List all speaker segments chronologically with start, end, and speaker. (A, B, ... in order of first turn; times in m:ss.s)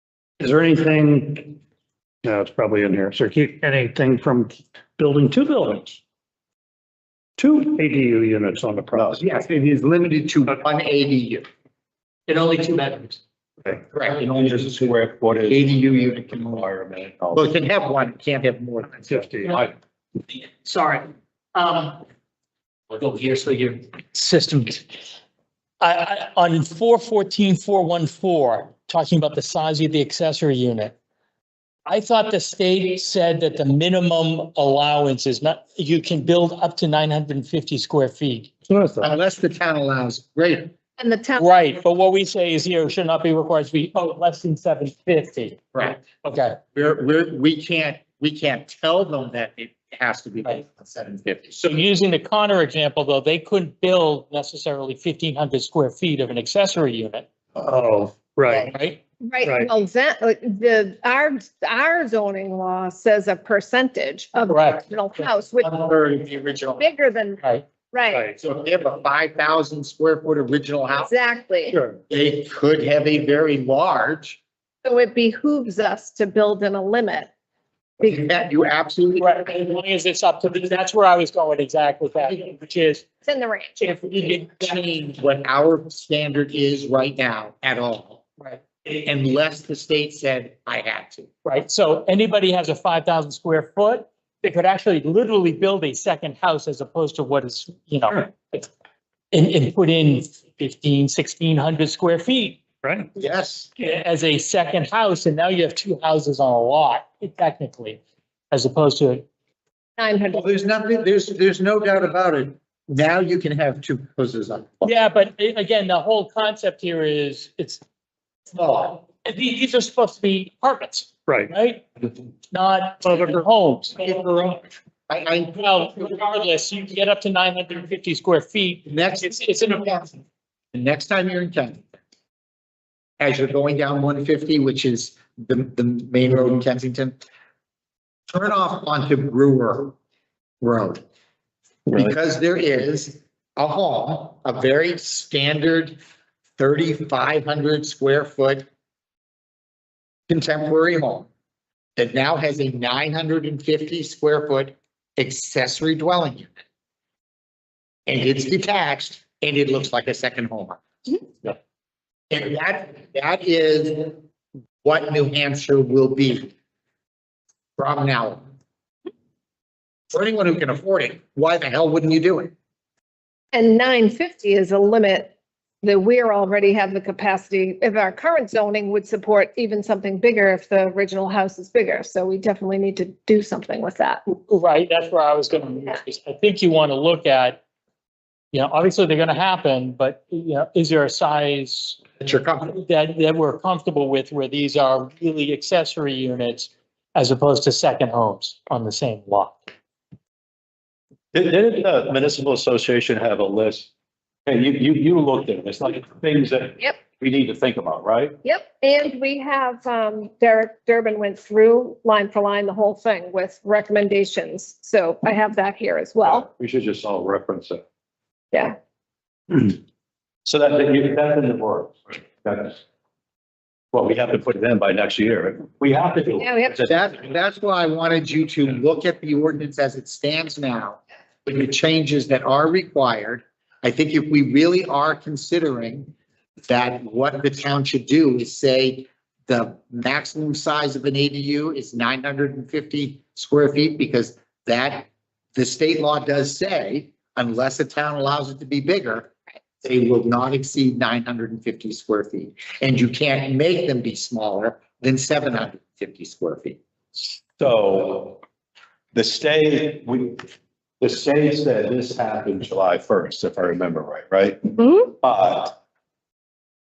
0:00.4-0:01.6 A
0:02.2-0:06.0 A
0:07.4-0:09.2 A
0:08.9-0:09.2 B
0:09.2-0:11.4 C
0:12.3-0:13.2 D
0:13.9-0:16.7 C
0:14.2-0:17.5 B
0:17.3-0:19.3 C
0:18.9-0:19.6 A
0:20.3-0:22.0 D
0:22.9-0:24.9 D
0:25.8-0:31.0 D
0:31.9-0:38.5 D
0:38.7-0:39.1 A
0:39.0-0:40.7 C
0:41.0-0:41.4 E
0:41.4-0:46.6 D
0:45.7-0:46.0 C
0:46.7-0:51.6 C
0:51.5-0:57.3 D
0:57.6-0:58.7 A
0:58.7-0:59.0 D
0:59.2-1:05.7 E
0:59.4-0:59.7 A
1:04.5-1:04.9 D
1:05.6-1:06.8 C
1:06.8-1:08.3 E
1:08.4-1:11.1 C
1:11.0-1:11.8 E
1:11.7-1:12.0 A
1:12.1-1:14.4 C
1:14.8-1:17.3 E
1:18.0-1:18.2 E
1:18.0-1:19.3 C
1:19.2-1:23.0 D
1:23.2-1:23.8 E
1:23.8-1:24.8 D
1:24.1-1:28.2 C
1:28.9-1:31.3 C
1:31.4-1:38.7 D
1:39.3-1:42.6 D
1:42.8-1:43.1 A
1:43.2-1:43.7 C
1:43.8-1:48.0 D
1:48.5-1:49.3 D
1:50.0-1:50.4 E
1:50.3-1:54.8 C
1:54.8-1:57.8 D
1:58.5-1:59.0 C
1:59.2-2:01.9 D
2:01.3-2:01.5 A
2:02.5-2:04.2 D
2:03.0-2:03.4 A
2:04.0-2:05.6 C
2:05.5-2:10.2 D
2:08.9-2:10.1 C
2:10.7-2:11.8 C
2:13.2-2:17.2 C
2:18.3-2:19.9 C
2:20.6-2:21.0 C
2:21.9-2:26.0 C
2:26.6-2:28.7 C
2:30.3-2:31.3 C
2:32.0-2:36.5 C
2:38.1-2:40.8 C
2:42.3-2:44.2 C
2:44.8-2:46.5 C
2:47.8-2:48.5 C
2:50.1-2:52.5 C
2:53.5-3:04.2 E
3:04.3-3:07.6 D
3:08.5-3:12.0 D
3:12.2-3:12.8 C
3:12.6-3:19.6 D
3:21.3-3:23.9 B
3:24.5-3:28.4 B
3:28.4-3:36.4 E
3:36.2-3:37.8 B
3:40.5-3:42.8 B
3:43.9-3:47.1 B
3:46.4-3:46.8 E
3:46.9-3:56.1 C
3:56.7-4:16.8 C
4:17.6-4:18.4 B
4:19.1-4:20.4 B
4:21.0-4:25.8 B